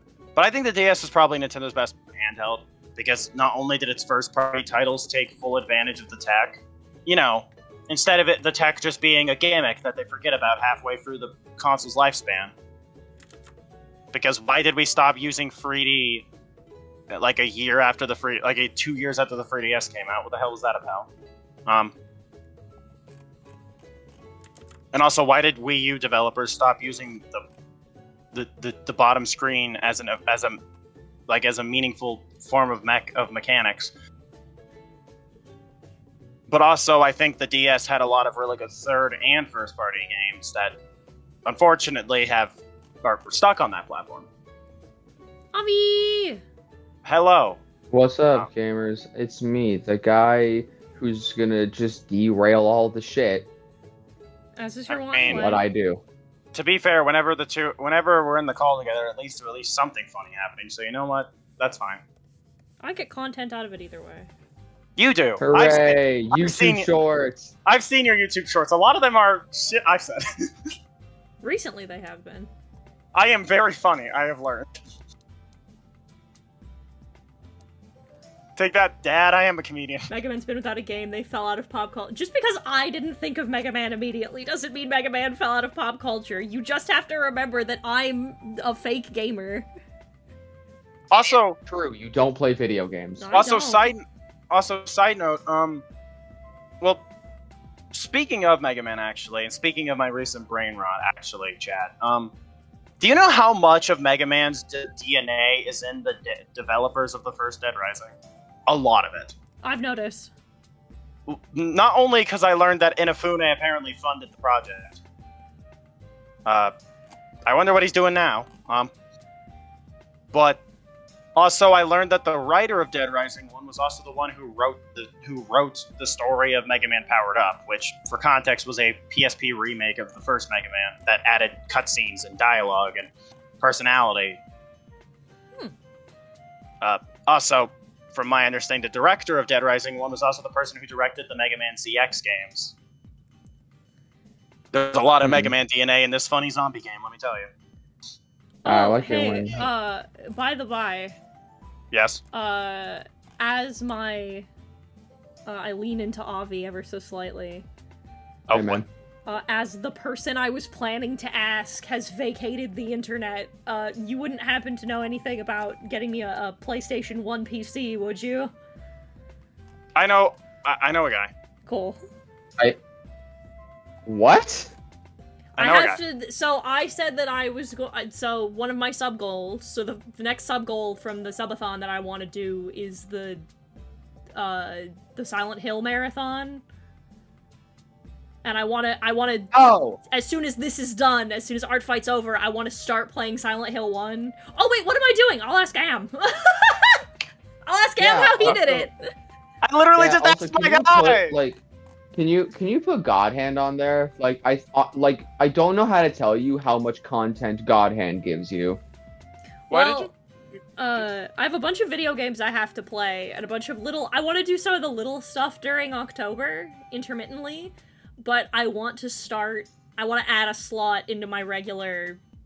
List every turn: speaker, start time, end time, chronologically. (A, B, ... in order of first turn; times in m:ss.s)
0:00.4-0:12.5 A
0:14.1-0:16.3 A
0:17.1-0:21.1 A
0:21.7-0:21.9 A
0:24.9-0:27.4 A
0:28.3-0:30.6 A
0:31.3-0:33.9 A
0:36.5-0:40.8 A
0:41.4-0:44.3 A
0:45.5-0:46.4 B
0:47.0-0:47.6 A
0:47.9-0:53.5 C
0:54.6-0:55.6 B
0:54.9-0:55.6 A
0:55.3-0:56.0 C
0:56.5-1:02.0 A
1:02.8-1:04.3 B
1:05.0-1:06.9 A
1:05.4-1:07.5 C
1:07.7-1:10.5 A
1:11.4-1:12.5 B
1:13.1-1:14.8 A
1:18.6-1:20.1 A
1:20.1-1:29.7 B
1:31.1-1:31.6 A
1:31.7-1:33.3 C
1:33.2-1:33.9 B
1:33.3-1:35.8 A
1:37.9-1:42.3 A
1:43.0-1:48.1 A
1:48.7-1:49.4 A
1:49.6-1:50.3 B
1:51.3-1:55.0 A
1:56.5-1:56.7 A
1:57.5-1:58.9 A
2:00.3-2:00.6 A
2:01.4-2:13.1 A
2:13.6-2:14.4 A
2:16.8-2:22.7 A
2:24.7-2:27.5 A
2:25.2-2:25.5 C
2:28.6-2:31.2 B
2:28.6-2:29.7 C
2:31.9-2:32.2 A
2:32.3-2:34.5 B
2:35.5-2:37.7 B
2:38.5-2:38.8 A
2:38.5-2:38.9 C
2:39.3-2:48.5 B
2:50.0-2:51.3 A
2:51.7-2:52.0 B
2:54.1-2:54.7 C
2:55.6-3:03.4 B
2:55.6-2:56.0 A
3:04.4-3:06.6 B
3:08.4-3:17.0 B
3:09.5-3:10.0 C
3:17.7-3:19.1 B
3:18.0-3:18.9 C
3:19.6-3:21.4 A
3:20.0-3:21.6 C
3:22.2-3:28.8 C
3:29.7-3:30.1 B
3:29.7-3:30.1 A
3:30.8-3:42.2 B